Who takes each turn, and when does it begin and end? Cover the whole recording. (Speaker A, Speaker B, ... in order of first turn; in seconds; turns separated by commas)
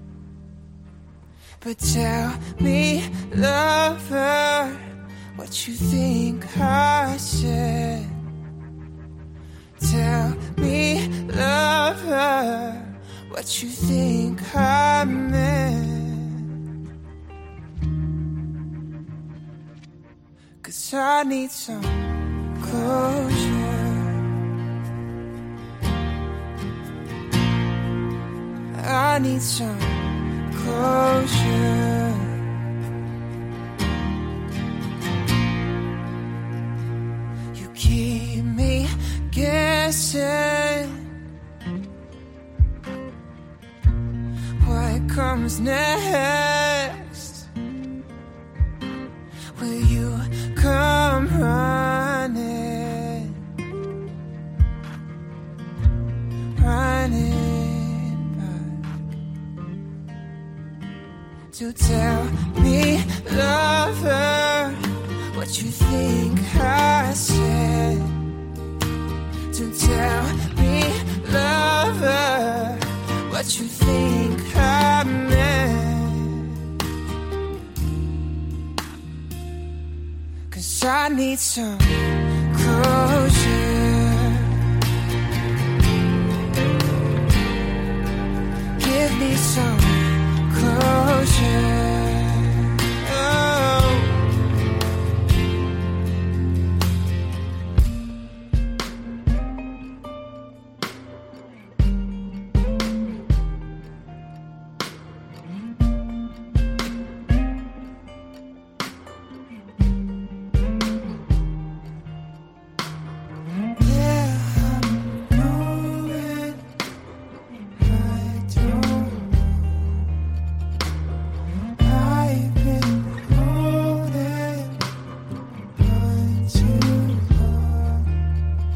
Speaker A: 1.6-8.2, Speaker A: 9.8-16.5, Speaker A: 20.6-24.3, Speaker A: 28.7-32.4, Speaker A: 37.5-41.1, Speaker A: 44.6-47.5, Speaker A: 49.5-53.5, Speaker A: 56.5-58.8, Speaker A: 61.5-68.3, Speaker A: 69.5-76.7, Speaker A: 80.5-84.6, Speaker A: 88.8-94.2, Speaker A: 113.8-116.7, Speaker A: 117.8-120.0, Speaker A: 121.8-124.9, Speaker A: 125.7-128.1